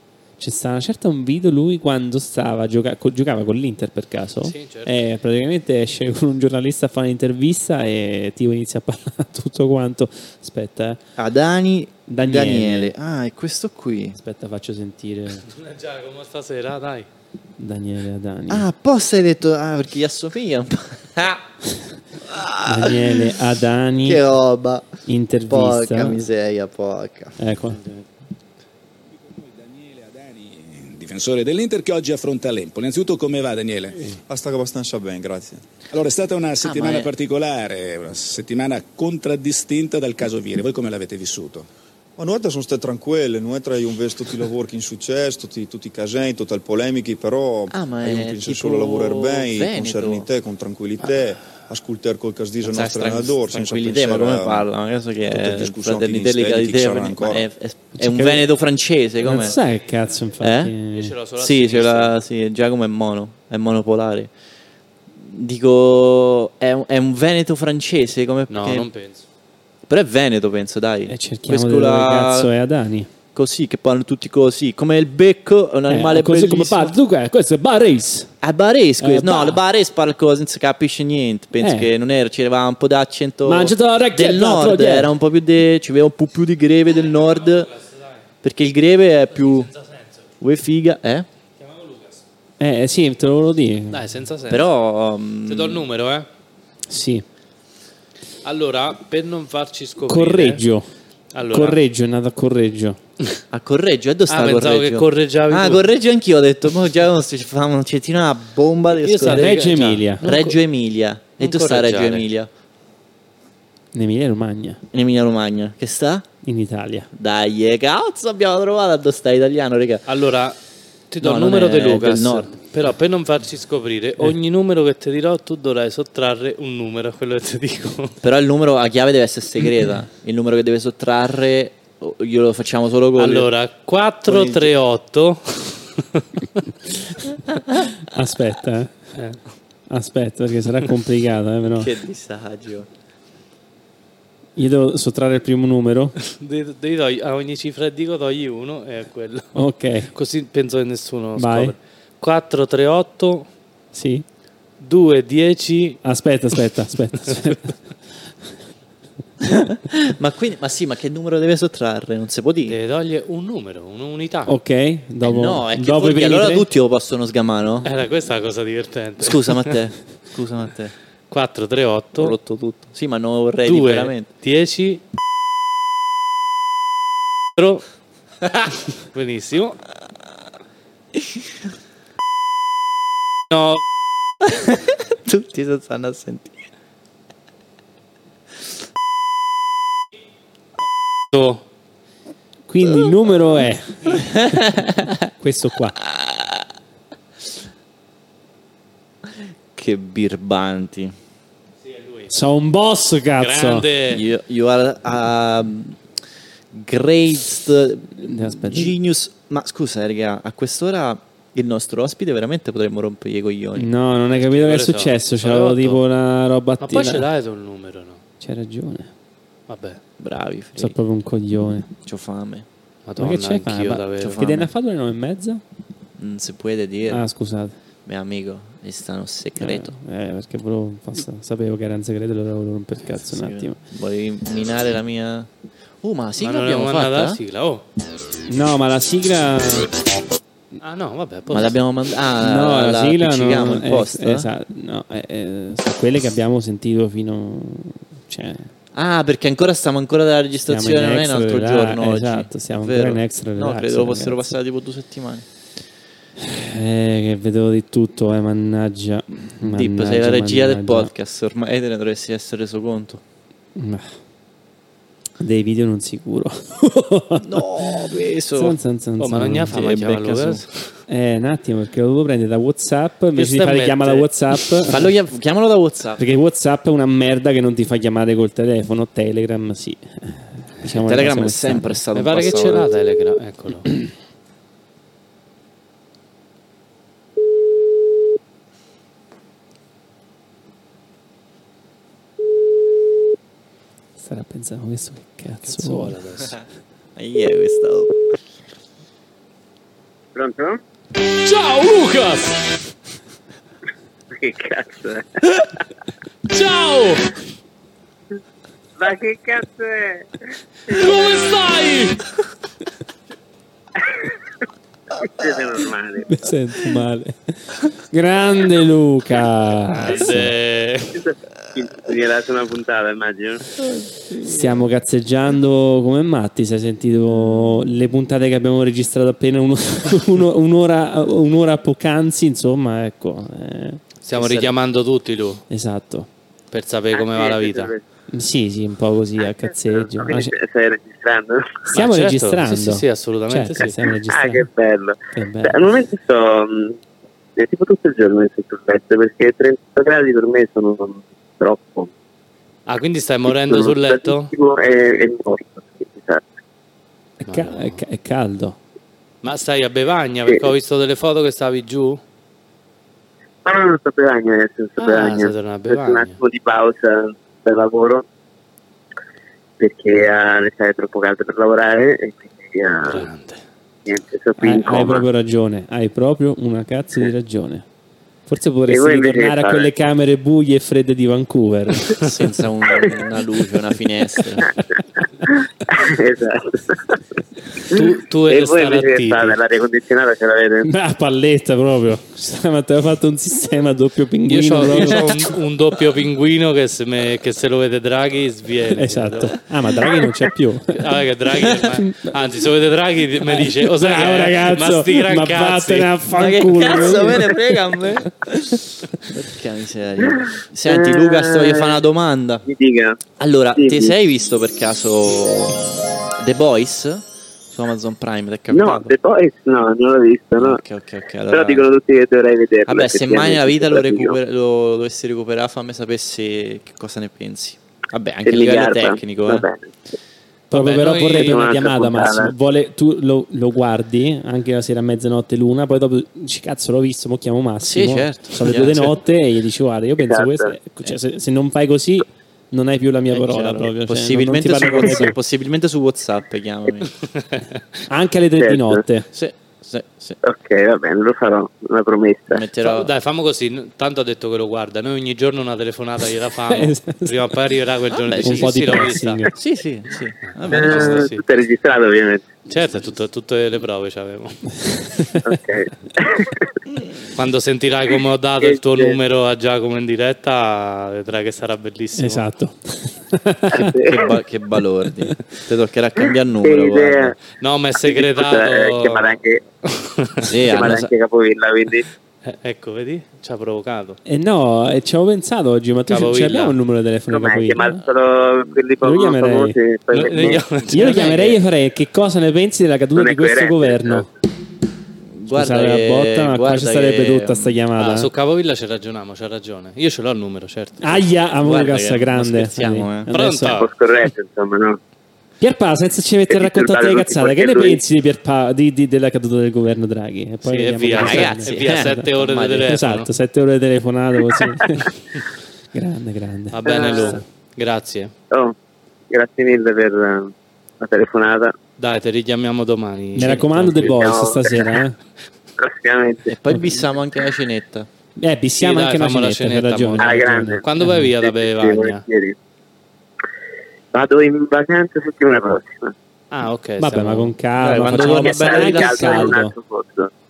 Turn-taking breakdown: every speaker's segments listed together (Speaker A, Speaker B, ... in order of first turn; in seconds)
Speaker A: 0.4-11.0, 12.1-12.9, 14.2-15.4, 17.6-18.7, 22.6-24.3, 25.1-26.2, 27.4-27.8, 58.0-58.5, 59.2-61.1, 71.1-73.1, 75.8-78.3, 79.0-79.6, 81.6-81.9, 83.5-85.1, 92.6-94.1, 96.9-97.2, 100.1-100.9, 101.5-103.0, 109.2-110.2, 113.9-114.8, 116.4-117.1, 138.1-138.9, 139.9-142.0, 144.6-146.2, 149.5-150.1, 151.4-151.8, 153.9-154.2, 156.0-157.8, 159.4-159.7, 164.5-166.7, 192.7-194.6, 195.4-196.0, 202.3-203.9, 208.2-209.0, 213.8-217.3, 218.4-219.1, 220.8-221.9, 223.2-225.6, 227.1-227.8, 229.6-233.8, 238.5-240.0, 242.4-248.7, 250.6-254.5, 256.4-261.1, 263.8-264.1, 265.4-269.8, 271.1-275.1, 276.2-281.9, 294.2-296.2, 316.2-320.5, 324.4-334.0, 335.7-336.3, 338.3-340.5, 341.9-344.7, 345.4-345.9, 357.4-358.8, 374.6-377.9, 378.5-382.2, 390.8-395.4, 398.9-401.0, 401.7-402.4, 403.4-408.7, 430.7-445.4, 448.1-449.3, 456.7-457.5, 458.4-459.5, 464.9-465.3, 472.2-473.9, 484.3-488.0, 489.0-489.8, 490.4-494.3, 495.5-498.3, 501.0-503.8, 505.6-512.3, 512.9-515.2, 515.9-517.4, 523.3-525.2, 526.7-527.0, 528.4-531.3, 537.0-539.8
Speaker B: 4.4-4.9, 15.5-17.1, 27.7-28.1, 60.9-62.1, 68.5-69.2, 87.6-88.0, 89.4-90.1, 91.6-92.2, 93.9-94.7, 95.5-96.3, 98.4-100.6, 101.3-101.8, 104.3-105.9, 109.0-110.6, 111.4-112.3, 120.1-120.6, 121.1-128.2, 133.2-136.7, 146.3-153.5, 154.8-156.0, 162.7-164.6, 167.8-169.7, 171.3-172.4, 173.6-175.0, 177.6-177.8, 179.1-179.8, 183.5-183.8, 191.3-191.6, 201.8-202.3, 203.4-204.2, 214.4-216.0, 216.8-218.2, 219.7-220.0, 223.1-224.4, 236.4-237.8, 240.8-241.8, 269.2-270.7, 273.4-274.3, 282.1-283.9, 295.6-296.6, 301.4-302.9, 306.5-307.4, 310.9-312.3, 319.9-321.2, 334.2-335.6, 336.7-337.9, 341.9-344.0, 352.9-354.5, 357.5-358.0, 359.4-362.2, 365.0-366.4, 373.1-373.6, 387.9-389.6, 394.5-399.6, 400.9-406.1, 430.7-431.7, 438.7-439.1, 447.4-447.8, 452.8-459.4, 460.5-461.4, 462.7-464.6, 467.3-472.5, 477.5-479.4, 480.0-480.5, 482.4-484.2, 486.1-486.8, 490.1-491.6, 498.0-501.3, 503.3-503.9, 510.6-513.3, 516.7-518.3, 522.0-524.2, 528.8-532.2, 536.5-537.6, 538.9-539.5
Speaker C: 11.2-14.2, 18.5-21.4, 22.3-23.4, 24.0-27.4, 36.6-37.1, 47.7-50.3, 52.6-59.6, 60.4-60.8, 61.3-64.3, 65.2-68.9, 69.9-72.5, 73.3-76.9, 78.4-87.7, 88.4-89.7, 90.4-91.3, 94.5-95.8, 103.5-109.7, 110.2-112.5, 114.9-116.3, 117.1-120.0, 121.2-122.5, 128.2-133.5, 134.2-134.8, 141.7-142.9, 159.9-162.8, 165.2-167.9, 169.2-170.9, 172.2-174.3, 184.5-186.6, 196.1-196.6, 199.3-201.1, 204.1-206.0, 206.7-213.9, 220.2-221.0, 222.1-222.7, 224.3-224.7, 226.2-227.3, 228.1-229.9, 233.2-235.5, 236.0-237.4, 241.5-244.5, 248.9-255.4, 259.7-263.2, 267.4-268.8, 269.4-270.6, 274.9-276.2, 280.9-282.9, 297.2-298.1, 334.3-334.7, 382.1-384.8, 406.3-408.4, 409.3-412.6, 413.4-419.1, 420.6-421.9, 422.9-429.7, 437.8-439.0, 443.3-447.1, 449.3-450.4, 452.5-453.1, 458.3-461.3, 474.0-477.4, 480.5-481.1, 495.4-497.8, 501.6-503.3, 511.2-513.0, 526.5-528.1, 537.8-538.9
Speaker D: 29.3-34.0, 35.9-41.7
Speaker E: 34.1-35.6, 42.2-54.7, 55.2-57.5
Speaker F: 300.4-300.8, 304.3-305.4, 309.0-310.4, 310.9-311.2, 314.1-314.4, 315.1-316.4, 321.1-323.7, 337.1-338.0, 339.4-341.9, 343.8-347.0, 347.6-352.1, 353.5-356.4, 363.6-368.2, 369.8-373.2, 374.1-375.2, 378.9-379.9, 385.4-387.2, 387.9-390.9, 410.4-412.0, 412.6-414.1, 418.7-420.8, 421.5-424.4, 428.4-429.9, 431.4-432.5, 440.2-440.8, 448.6-449.0, 450.4-452.6, 460.7-462.5, 465.4-466.7, 468.6-469.2, 473.7-474.4, 476.6-477.4, 478.0-479.6, 480.6-482.1, 487.3-491.1, 493.1-494.3, 503.7-505.0, 506.5-508.0, 516.9-517.4, 519.3-521.7, 524.0-525.0, 525.8-526.5, 530.2-530.8, 531.4-532.6, 534.1-536.1, 538.1-540.3